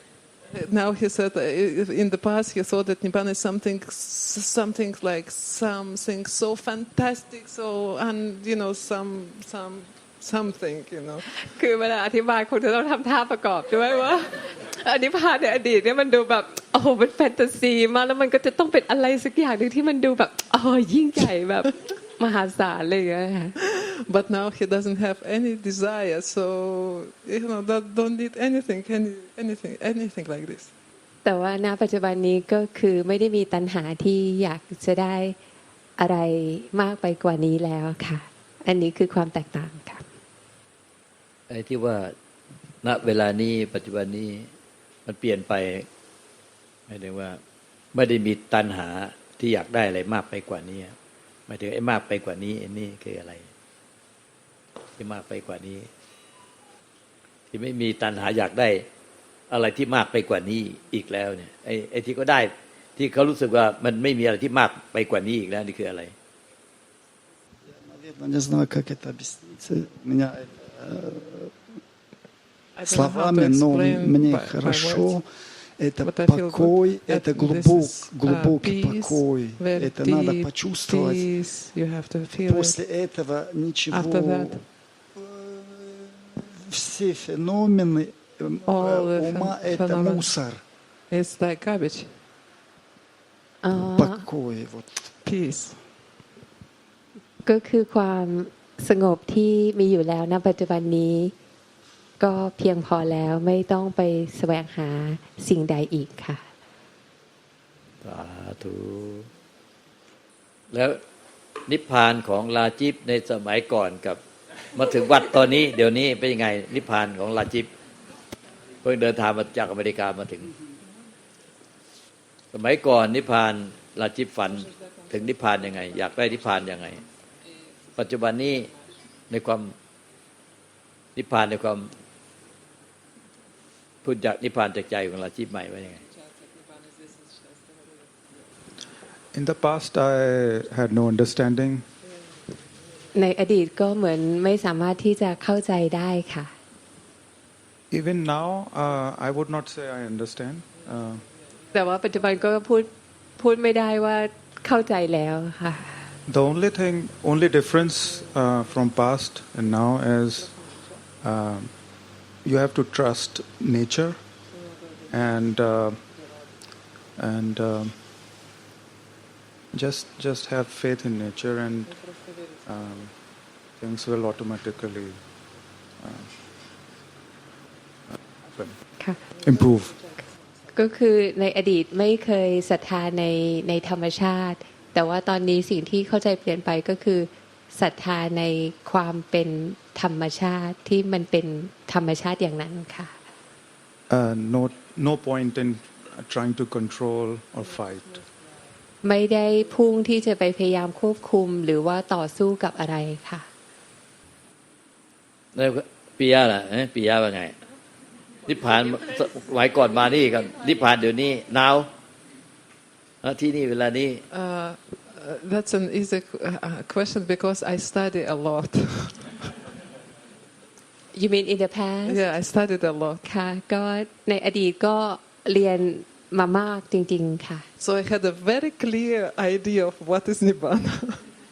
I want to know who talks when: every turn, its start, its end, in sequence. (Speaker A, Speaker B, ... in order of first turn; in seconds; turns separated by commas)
Speaker A: 0.5-11.3, Speaker B: 11.3-23.5, Speaker A: 23.6-30.7, Speaker B: 31.2-35.4, Speaker B: 36.0-40.0, Speaker C: 41.5-42.1, Speaker C: 42.8-44.5, Speaker C: 45.0-45.9, Speaker C: 46.9-47.4, Speaker C: 47.9-50.9, Speaker C: 51.5-53.5, Speaker C: 55.0-55.9, Speaker C: 57.5-58.8, Speaker C: 59.5-66.1, Speaker D: 67.6-71.5, Speaker A: 72.7-75.2, Speaker D: 72.8-75.3, Speaker D: 75.8-81.3, Speaker A: 76.0-82.8, Speaker D: 82.5-84.6, Speaker A: 83.9-84.6, Speaker D: 85.2-90.6, Speaker A: 88.6-90.4, Speaker A: 91.1-92.2, Speaker B: 93.6-94.2, Speaker D: 93.7-95.0, Speaker A: 95.2-95.8, Speaker B: 97.4-101.3, Speaker B: 102.2-106.5, Speaker C: 108.0-109.3, Speaker C: 110.7-111.0, Speaker C: 111.7-114.2, Speaker C: 114.7-117.7, Speaker C: 118.8-120.5, Speaker C: 122.5-127.0, Speaker C: 128.0-128.7, Speaker C: 129.3-129.7, Speaker C: 131.2-131.9, Speaker C: 134.0-136.0, Speaker E: 139.3-141.8, Speaker B: 143.1-146.5, Speaker E: 147.9-151.2, Speaker B: 151.7-156.0, Speaker E: 156.2-160.6, Speaker E: 161.2-161.8, Speaker E: 162.4-164.2, Speaker E: 165.1-166.0, Speaker E: 167.2-168.0, Speaker E: 169.7-171.9, Speaker E: 172.6-173.2, Speaker E: 173.7-175.2, Speaker E: 175.9-176.3, Speaker E: 178.5-178.8, Speaker E: 179.4-180.1, Speaker B: 180.7-193.1, Speaker E: 194.1-198.2, Speaker B: 199.0-203.5, Speaker C: 205.5-207.5, Speaker C: 208.4-211.9, Speaker C: 213.2-214.2, Speaker A: 214.3-219.4, Speaker B: 221.1-222.2, Speaker A: 222.1-223.2, Speaker B: 223.2-227.7, Speaker A: 227.8-231.2